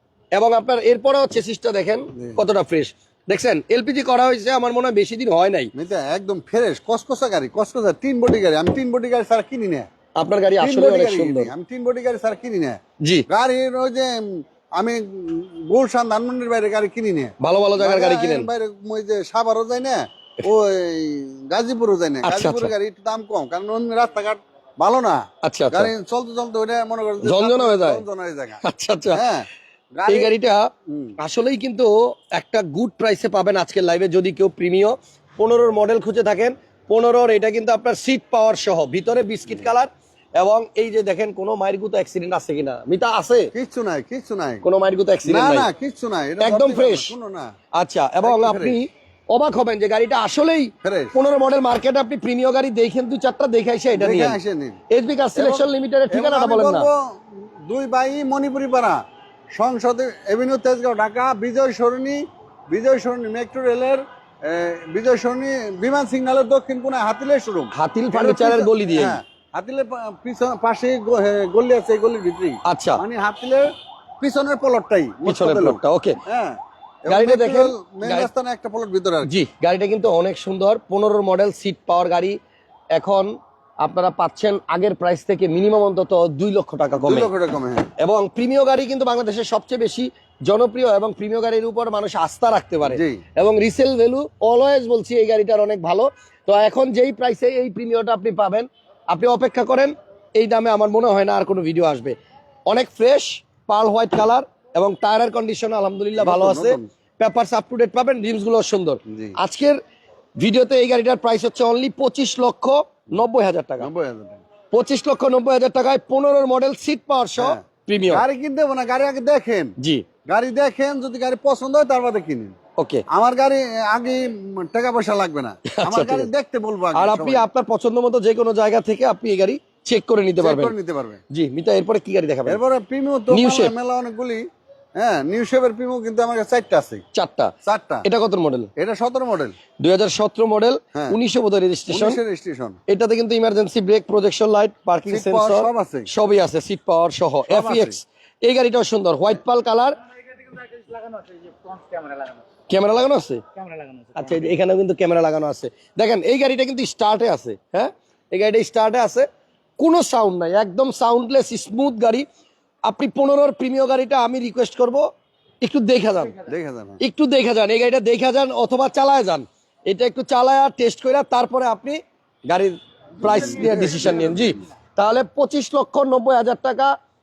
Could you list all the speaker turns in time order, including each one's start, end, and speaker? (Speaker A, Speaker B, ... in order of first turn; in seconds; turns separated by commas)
Speaker A: 0.3-5.7, Speaker B: 2.1-2.4, Speaker B: 5.8-9.9, Speaker A: 10.2-11.5, Speaker B: 10.6-28.6, Speaker A: 17.4-18.5, Speaker A: 22.2-22.7, Speaker A: 25.4-25.9, Speaker A: 27.2-28.0, Speaker A: 28.6-29.2, Speaker B: 29.1-30.3, Speaker A: 30.1-30.7, Speaker B: 30.9-31.1, Speaker A: 31.2-43.5, Speaker B: 43.5-44.6, Speaker A: 44.6-45.7, Speaker B: 45.2-47.5, Speaker A: 46.4-47.1, Speaker A: 47.8-54.4, Speaker B: 48.2-48.8, Speaker B: 50.8-51.1, Speaker B: 54.0-54.8, Speaker A: 54.9-56.9, Speaker B: 55.4-59.0, Speaker B: 59.5-73.7, Speaker A: 67.7-69.2, Speaker A: 72.7-73.0, Speaker B: 74.2-79.3, Speaker A: 75.3-76.2, Speaker A: 77.1-78.3, Speaker A: 79.3-82.4, Speaker A: 82.9-87.3, Speaker B: 87.0-87.9, Speaker A: 88.0-102.2, Speaker B: 92.8-93.2, Speaker A: 102.7-109.8, Speaker B: 106.2-106.9, Speaker B: 109.1-109.4, Speaker A: 110.4-113.9, Speaker B: 113.8-114.4, Speaker A: 114.7-118.2, Speaker B: 117.4-119.8, Speaker A: 119.8-120.1, Speaker B: 120.3-122.5, Speaker A: 122.8-123.0, Speaker B: 123.1-127.5, Speaker A: 125.7-126.3, Speaker A: 126.9-130.7, Speaker B: 130.4-131.2, Speaker A: 131.3-132.6, Speaker B: 132.5-134.4, Speaker A: 133.3-133.7, Speaker B: 135.0-137.0, Speaker A: 137.1-137.5, Speaker B: 137.6-138.1, Speaker A: 138.0-138.7, Speaker B: 138.8-139.6, Speaker A: 139.8-142.2, Speaker B: 141.9-142.8, Speaker A: 142.9-150.0, Speaker B: 145.1-146.1, Speaker C: 147.5-147.8, Speaker B: 147.7-147.9, Speaker C: 150.4-152.4, Speaker A: 152.7-153.4, Speaker C: 153.6-154.6, Speaker A: 154.2-159.3, Speaker A: 159.8-162.2, Speaker A: 162.9-165.1, Speaker A: 165.6-166.4, Speaker B: 166.4-167.0, Speaker A: 167.0-176.9, Speaker B: 173.2-174.6, Speaker C: 173.2-174.1